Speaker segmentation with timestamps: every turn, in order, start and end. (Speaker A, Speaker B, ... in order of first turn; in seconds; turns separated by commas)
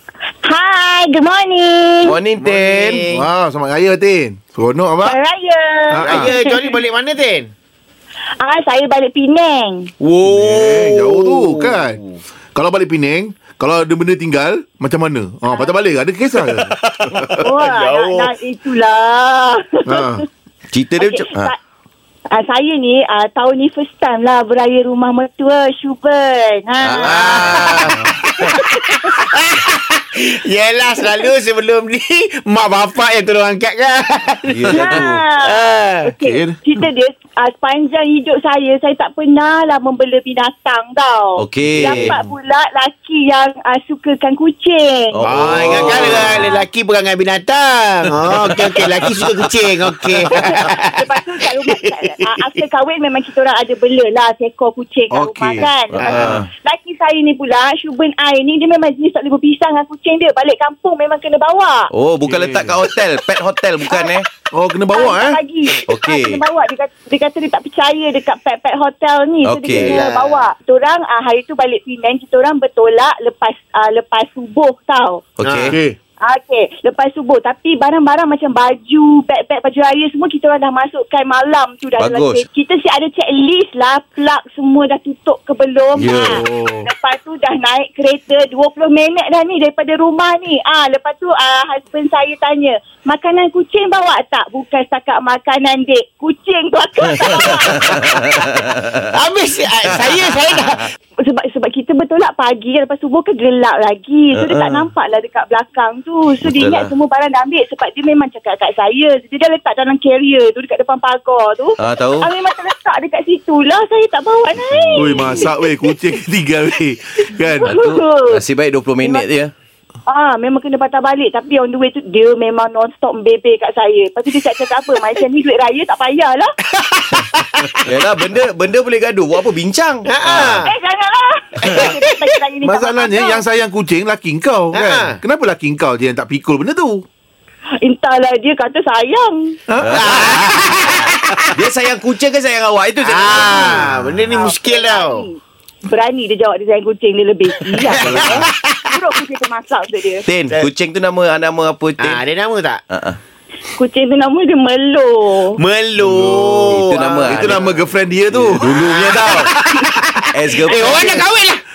Speaker A: 0.4-2.2, Speaker B: 2.0-3.2, Speaker C: 2.4-3.1, Speaker D: 2.7-5.2, Speaker A: 5.0-6.8, Speaker C: 5.9-7.5, Speaker D: 5.9-6.4, Speaker A: 8.4-9.9, Speaker C: 10.0-12.2, Speaker D: 10.2-12.0, Speaker D: 12.5-17.4, Speaker C: 16.9-18.3, Speaker A: 17.4-20.2, Speaker D: 19.9-20.2, Speaker B: 20.7-21.5, Speaker A: 21.0-21.6, Speaker A: 22.3-27.8, Speaker B: 26.8-28.0, Speaker C: 26.9-36.1, Speaker D: 27.6-28.1, Speaker B: 34.5-35.2, Speaker A: 34.7-45.2, Speaker D: 36.1-36.6, Speaker B: 41.4-42.2, Speaker D: 41.8-42.3, Speaker B: 45.1-46.6, Speaker C: 45.2-52.6, Speaker D: 45.9-46.2, Speaker B: 48.4-49.5, Speaker A: 48.8-49.0, Speaker A: 50.3-61.9, Speaker D: 55.1-56.4, Speaker B: 55.9-56.5, Speaker C: 56.0-56.4, Speaker B: 61.9-64.3, Speaker D: 62.2-62.9, Speaker A: 63.9-64.1, Speaker D: 64.5-65.4, Speaker A: 64.9-75.3, Speaker B: 65.8-66.4, Speaker B: 69.4-70.0, Speaker C: 69.7-70.5, Speaker B: 75.4-75.8, Speaker C: 75.4-75.8, Speaker D: 75.7-76.0, Speaker A: 76.2-98.5, Speaker B: 82.0-82.4, Speaker B: 86.0-86.4, Speaker D: 86.1-86.9, Speaker B: 97.0-99.0, Speaker C: 99.0-100.9, Speaker A: 101.2-116.0, Speaker B: 104.3-104.9, Speaker B: 106.4-106.9, Speaker B: 111.8-112.3, Speaker B: 114.6-115.4, Speaker D: 115.0-117.8, Speaker A: 117.4-118.4, Speaker B: 117.6-119.5, Speaker A: 120.1-126.5, Speaker C: 126.7-127.8, Speaker B: 127.8-130.6, Speaker C: 130.1-130.7, Speaker A: 130.6-133.4, Speaker C: 131.6-132.4, Speaker D: 132.6-137.1, Speaker C: 134.7-135.2, Speaker A: 137.8-139.6, Speaker D: 139.7-140.9, Speaker B: 139.8-144.0, Speaker C: 139.9-141.5, Speaker C: 143.0-145.3, Speaker A: 143.5-150.2, Speaker D: 143.7-144.2, Speaker C: 147.8-149.2, Speaker D: 147.9-148.5, Speaker B: 150.2-152.2, Speaker C: 152.0-152.8, Speaker B: 152.9-153.2, Speaker A: 153.8-155.6, Speaker C: 155.4-157.8, Speaker D: 156.0-159.8, Speaker B: 156.7-157.7, Speaker B: 158.3-159.5, Speaker C: 158.6-161.6, Speaker B: 160.3-161.3